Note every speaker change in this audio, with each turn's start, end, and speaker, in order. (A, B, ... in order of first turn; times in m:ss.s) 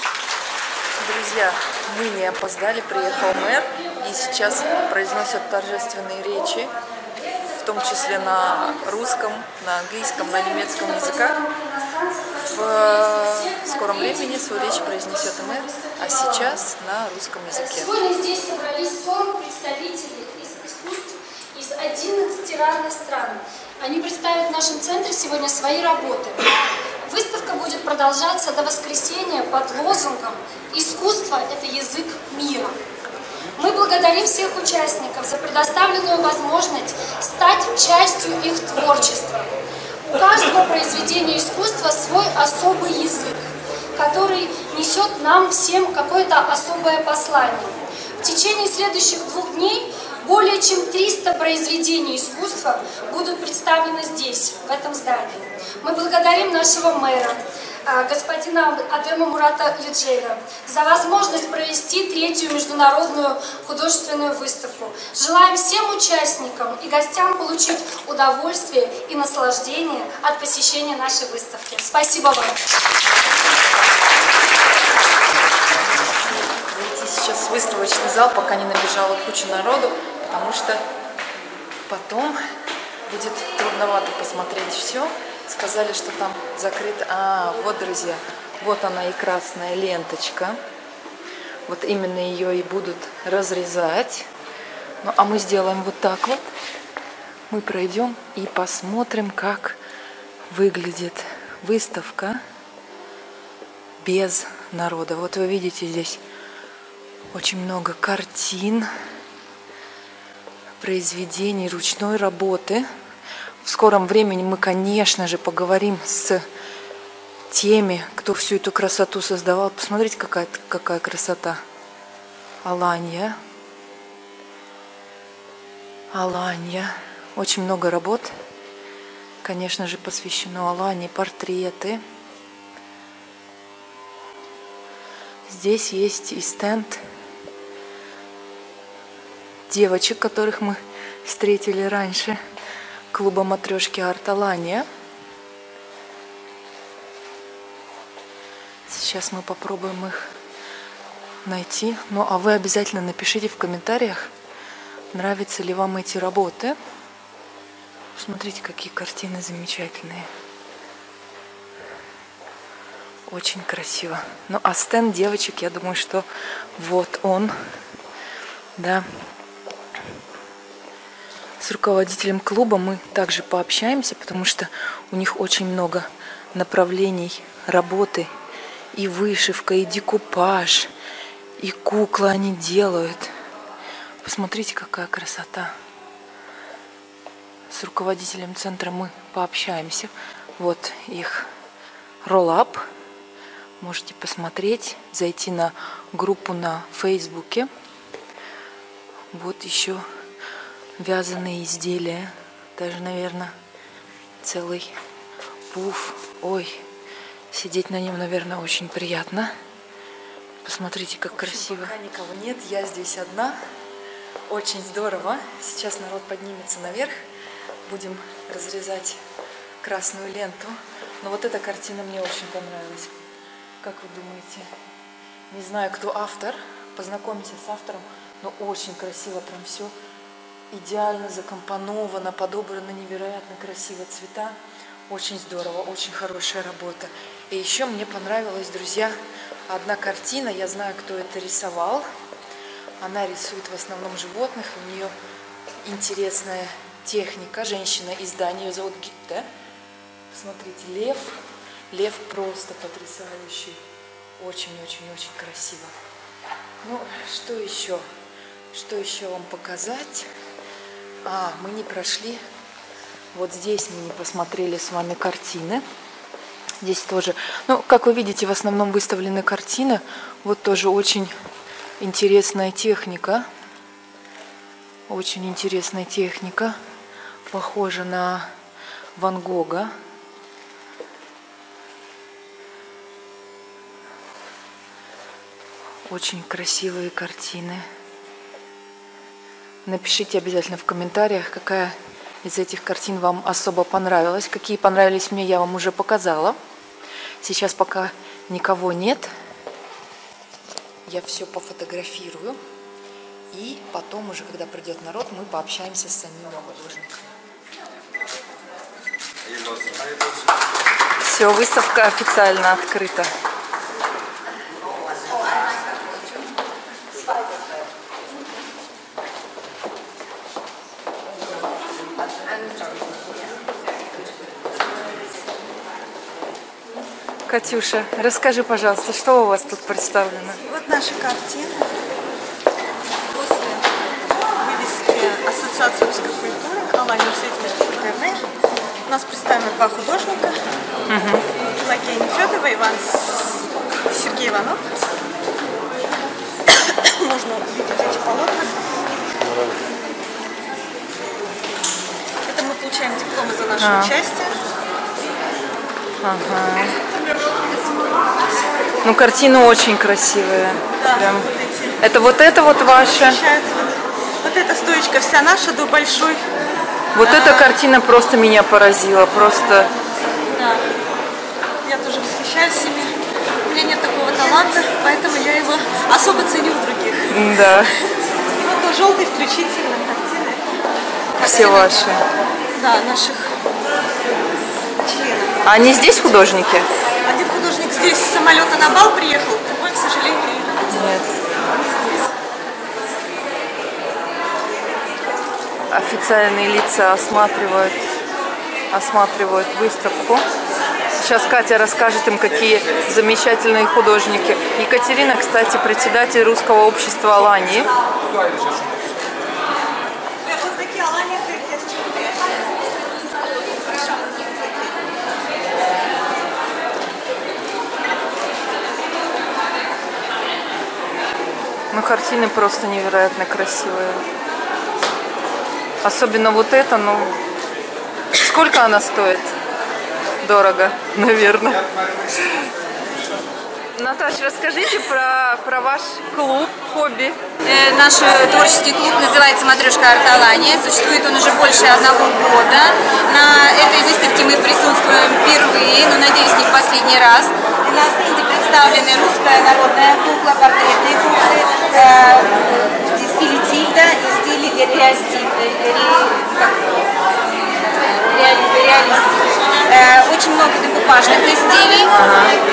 0:01.0-0:06.7 A
0:07.4-0:11.4 A
0:10.1-0:16.6 B
0:12.5-0:18.0 A
0:17.5-0:26.5 B
0:27.0-0:32.7 B
0:33.6-0:39.5 B
0:40.0-0:43.4 B
0:44.0-1:12.6 B
1:16.6-1:20.8 A
1:21.9-1:22.4 A
1:23.1-1:30.6 A
1:31.7-1:34.3 A
1:35.0-1:36.4 A
1:37.5-1:39.8 A
1:40.5-1:42.4 A
1:44.0-1:46.2 A
1:47.3-1:48.9 A
1:50.8-1:52.8 A
1:53.6-1:56.4 A
1:57.5-2:01.6 A
2:02.6-2:03.3 A
2:06.1-2:08.3 A
2:09.4-2:12.0 A
2:15.5-2:17.0 A
2:19.7-2:22.4 A
2:23.1-2:24.8 A
2:28.9-2:30.3 A
2:31.4-2:34.3 A
2:35.1-2:36.8 A
2:38.2-2:40.3 A
2:43.3-2:46.2 A
2:46.8-2:47.5 A
2:48.8-2:49.0 A
2:51.6-2:58.3 A
2:58.9-3:00.9 A
3:01.6-3:03.3 A
3:04.2-3:05.7 A
3:07.7-3:11.5 A
3:12.2-3:12.8 A
3:13.8-3:17.7 A
3:19.3-3:20.0 A
3:21.0-3:23.5 A
3:24.4-3:24.9 A
3:25.7-3:26.8 A
3:27.5-3:29.5 A
3:30.6-3:33.5 A
3:34.5-3:37.1 A
3:37.9-3:39.2 A
3:39.8-3:43.1 A
3:43.8-3:44.7 A
3:45.5-3:49.9 A
3:50.7-3:54.5 A
3:55.1-3:59.1 A
3:59.7-4:02.0 A
4:03.0-4:05.1 A
4:05.8-4:09.4 A
4:10.3-4:11.4 A
4:11.9-4:13.8 A
4:14.4-4:15.9 A
4:16.8-4:18.0 A
4:18.7-4:20.3 A
4:21.2-4:22.4 A
4:23.3-4:25.8 A
4:26.8-4:31.3 A
4:32.0-4:33.4 A
4:35.1-4:36.7 A
4:37.5-4:38.5 A
4:39.2-4:39.9 A
4:46.1-4:47.8 A
4:49.8-4:56.6 A
4:57.4-4:59.3 A
5:01.0-5:02.6 A
5:03.5-5:07.2 A
5:11.2-5:13.3 A
5:27.5-5:30.6 A
5:30.7-5:31.8 C
5:34.6-5:38.4 C
5:39.1-5:40.6 C
5:41.1-5:41.4 A
5:41.8-5:43.4 C
5:44.1-5:44.8 C
5:47.0-5:48.7 C
5:52.4-5:54.6 C
5:53.8-5:54.1 A
5:56.2-5:56.9 A
5:59.0-6:03.4 A
6:01.0-6:02.0 C
6:03.0-6:06.4 C
6:07.2-6:09.9 A
6:07.2-6:07.7 C
6:10.5-6:10.8 C
6:11.8-6:13.1 C
6:13.7-6:17.2 C
6:17.3-6:17.9 A
6:18.6-6:20.6 C
6:21.4-6:22.0 C
6:21.4-6:22.2 A
6:22.8-6:23.5 C
6:25.0-6:26.2 C
6:25.6-6:26.9 A
6:27.2-6:30.8 C
6:30.9-6:31.3 A
6:35.9-6:38.0 A
6:38.9-6:40.4 A
6:41.2-6:47.9 A
6:50.4-6:52.4 C
6:53.9-6:54.6 C
7:01.9-7:04.2 A
7:06.0-7:07.3 A
7:08.3-7:09.5 A
7:10.4-7:11.8 A
7:14.0-7:17.4 A
7:17.6-7:37.1 D
7:38.0-7:42.2 D
7:42.1-7:42.5 A